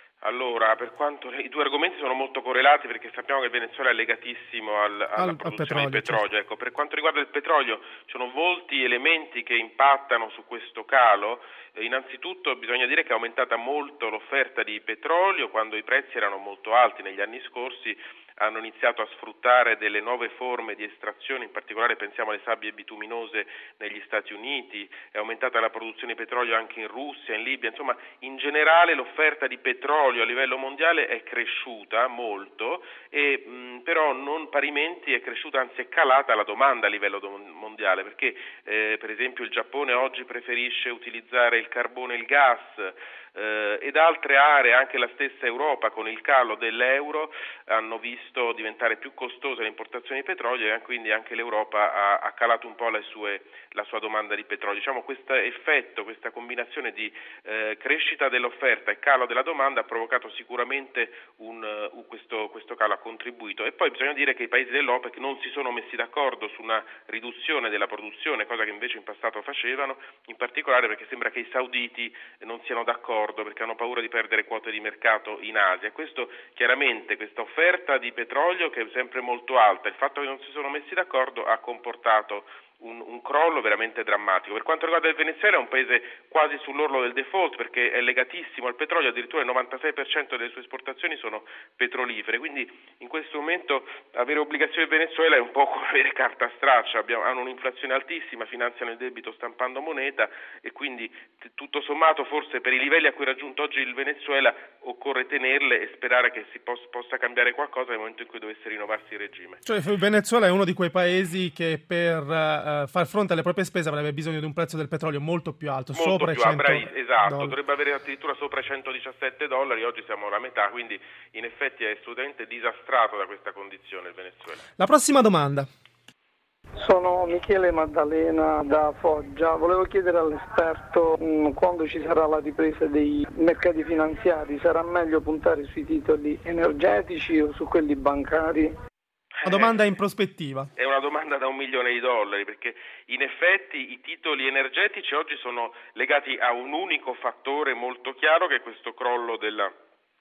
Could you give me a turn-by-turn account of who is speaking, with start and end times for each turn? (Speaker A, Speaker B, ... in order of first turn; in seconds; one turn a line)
Speaker A: 0.2-109.6
Speaker B: 5.2-6.2
Speaker B: 109.7-117.5
Speaker A: 115.9-124.6
Speaker B: 124.8-125.7
Speaker C: 126.8-138.8
Speaker A: 139.4-139.7
Speaker B: 139.4-140.7
Speaker A: 140.8-149.7